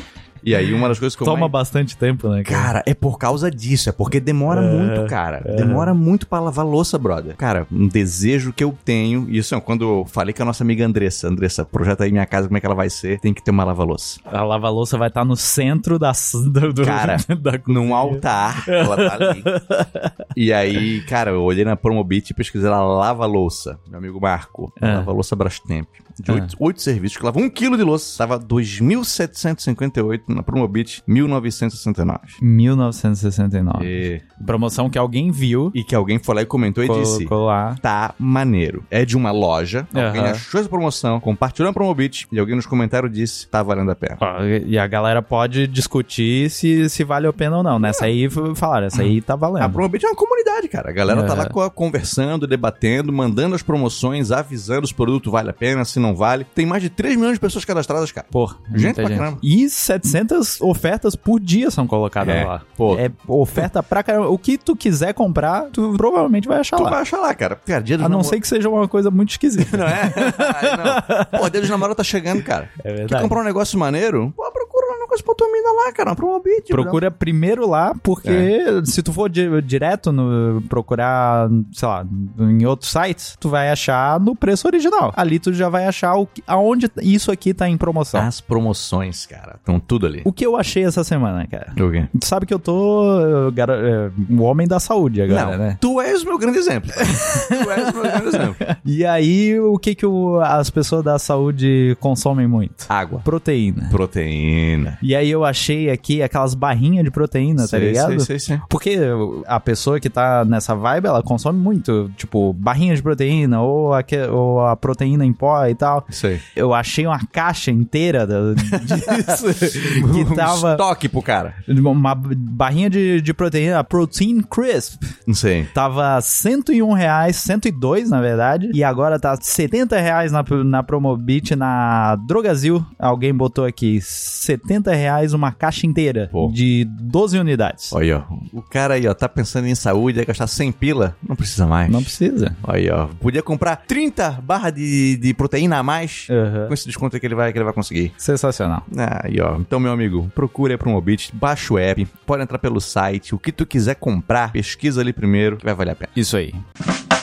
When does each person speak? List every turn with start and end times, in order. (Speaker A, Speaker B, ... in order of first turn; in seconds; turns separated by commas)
Speaker A: 0.4-1.5, Speaker B: 1.2-2.7, Speaker A: 2.4-14.2, Speaker B: 4.5-5.9, Speaker B: 14.3-20.2, Speaker A: 16.7-19.5, Speaker A: 20.3-32.4, Speaker B: 24.8-25.1, Speaker B: 32.4-35.7, Speaker A: 33.8-34.4, Speaker A: 35.7-44.2, Speaker B: 36.8-37.8, Speaker B: 39.9-40.4, Speaker B: 44.2-49.8, Speaker A: 47.8-48.1, Speaker A: 48.9-59.4, Speaker B: 51.1-51.5, Speaker B: 58.3-67.0, Speaker A: 62.2-63.0, Speaker A: 66.8-68.3, Speaker B: 68.0-71.8, Speaker A: 69.6-77.0, Speaker B: 72.8-73.4, Speaker B: 76.7-88.3, Speaker A: 78.2-78.5, Speaker A: 88.1-90.3, Speaker B: 90.2-95.8, Speaker A: 91.8-92.1, Speaker A: 95.3-98.6, Speaker B: 97.0-103.9, Speaker A: 102.9-103.2, Speaker A: 103.9-105.0, Speaker B: 105.0-120.8, Speaker A: 107.6-108.6, Speaker A: 116.1-116.4, Speaker A: 118.6-121.6, Speaker B: 121.7-125.2, Speaker A: 125.3-125.7, Speaker B: 125.7-137.9, Speaker A: 137.9-148.1, Speaker B: 141.9-142.6, Speaker B: 146.3-146.7, Speaker B: 148.2-148.8, Speaker A: 148.9-156.1, Speaker B: 156.1-156.6